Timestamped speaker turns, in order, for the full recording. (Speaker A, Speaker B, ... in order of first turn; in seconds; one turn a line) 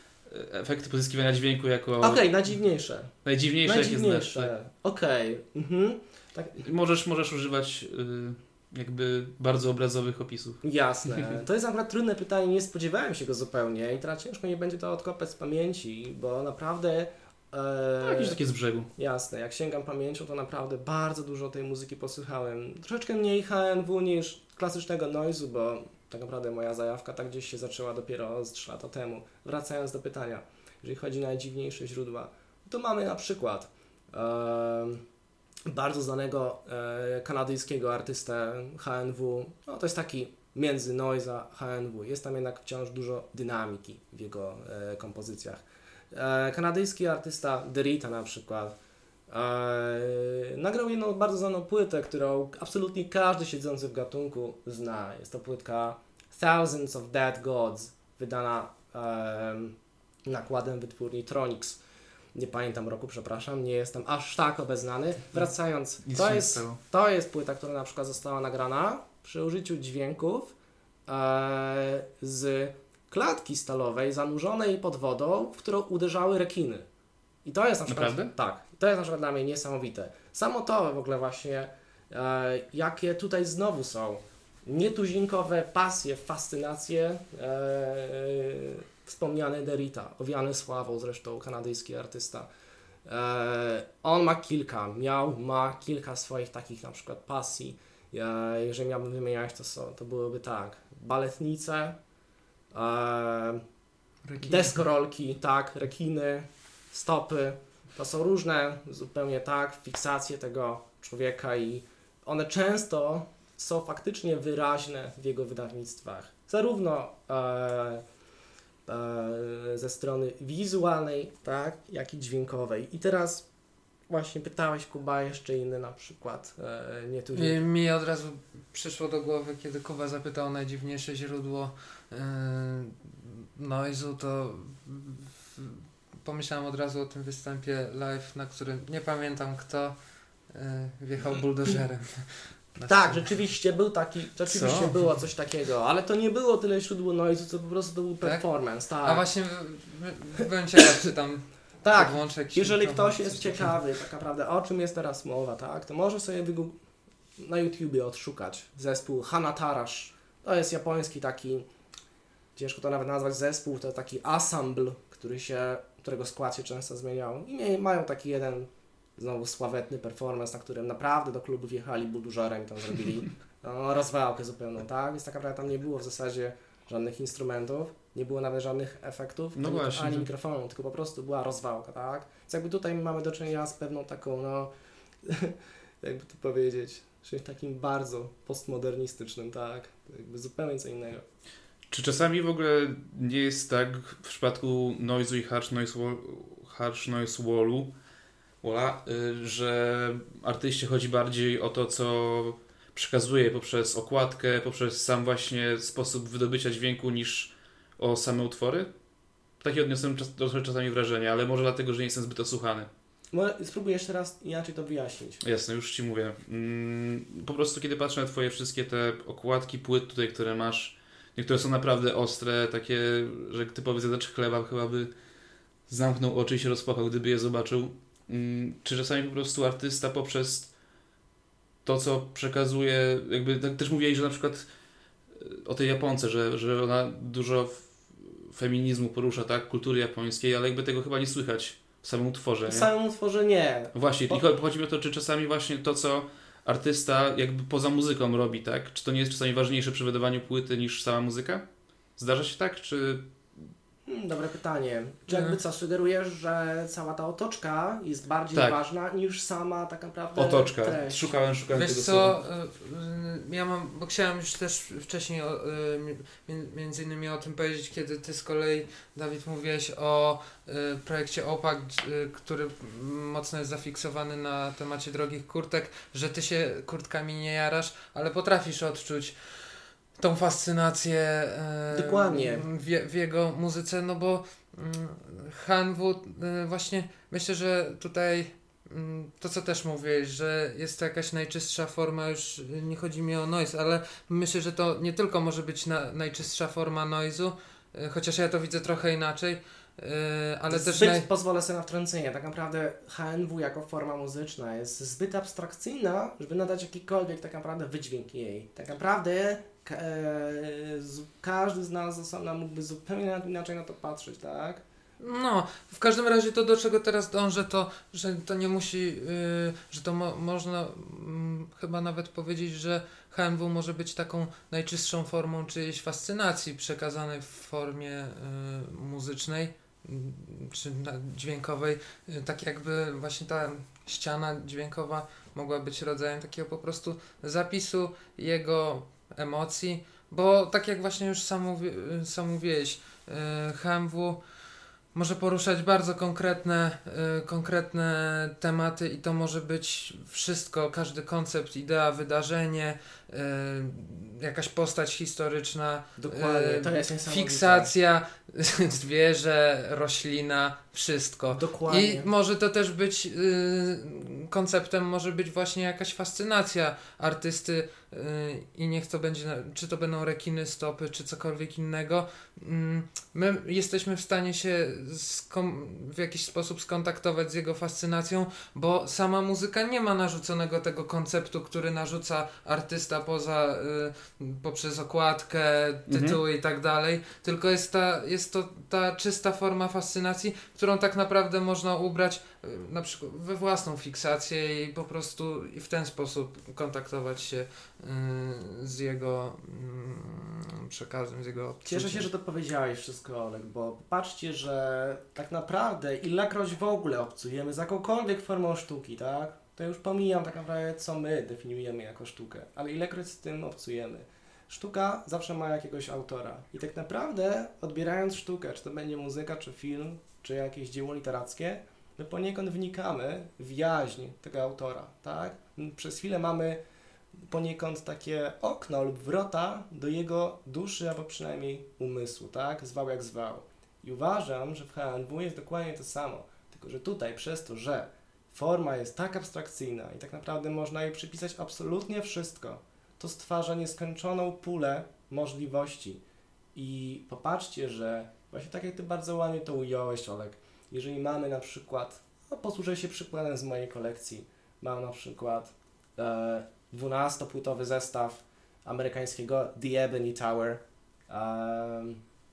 Speaker A: 0.3-2.2
Speaker B: 2.0-6.7
Speaker A: 3.2-4.5
Speaker A: 6.6-10.6
Speaker B: 10.6-18.4
Speaker A: 18.0-18.9
Speaker B: 19.0-35.0
Speaker B: 35.7-48.7
Speaker B: 49.3-59.8
Speaker B: 60.3-61.8
Speaker B: 62.4-70.5
Speaker A: 66.1-66.8
Speaker B: 71.1-76.8
Speaker B: 77.5-92.5
Speaker A: 77.9-78.3
Speaker B: 93.1-102.0
Speaker B: 102.7-103.6
Speaker C: 104.2-104.8
Speaker B: 104.4-118.0
Speaker B: 118.9-123.5
Speaker B: 124.1-127.6
Speaker C: 127.3-140.0
Speaker C: 140.5-143.2
Speaker B: 142.9-149.3
Speaker A: 144.6-144.9
Speaker C: 149.0-153.7
Speaker B: 151.8-156.8
Speaker B: 157.4-161.7
Speaker B: 162.6-184.7
Speaker A: 179.6-180.3
Speaker B: 185.2-191.2
Speaker A: 191.9-197.9
Speaker A: 198.6-208.9
Speaker A: 209.6-212.9
Speaker B: 213.3-215.4
Speaker A: 215.4-225.1
Speaker A: 225.9-230.7
Speaker A: 231.8-234.7
Speaker A: 235.3-242.9
Speaker B: 242.7-244.4
Speaker A: 243.9-251.7
Speaker A: 252.2-253.7
Speaker B: 254.1-261.3
Speaker C: 255.3-255.6
Speaker A: 258.5-258.8
Speaker A: 260.4-262.4
Speaker C: 261.7-301.3
Speaker B: 281.9-282.7
Speaker B: 300.7-314.8
Speaker C: 315.2-344.4
Speaker C: 345.1-402.3
Speaker B: 356.2-357.9
Speaker B: 361.5-362.3
Speaker A: 386.1-386.4
Speaker B: 401.9-426.8
Speaker B: 427.4-446.2
Speaker B: 446.8-462.2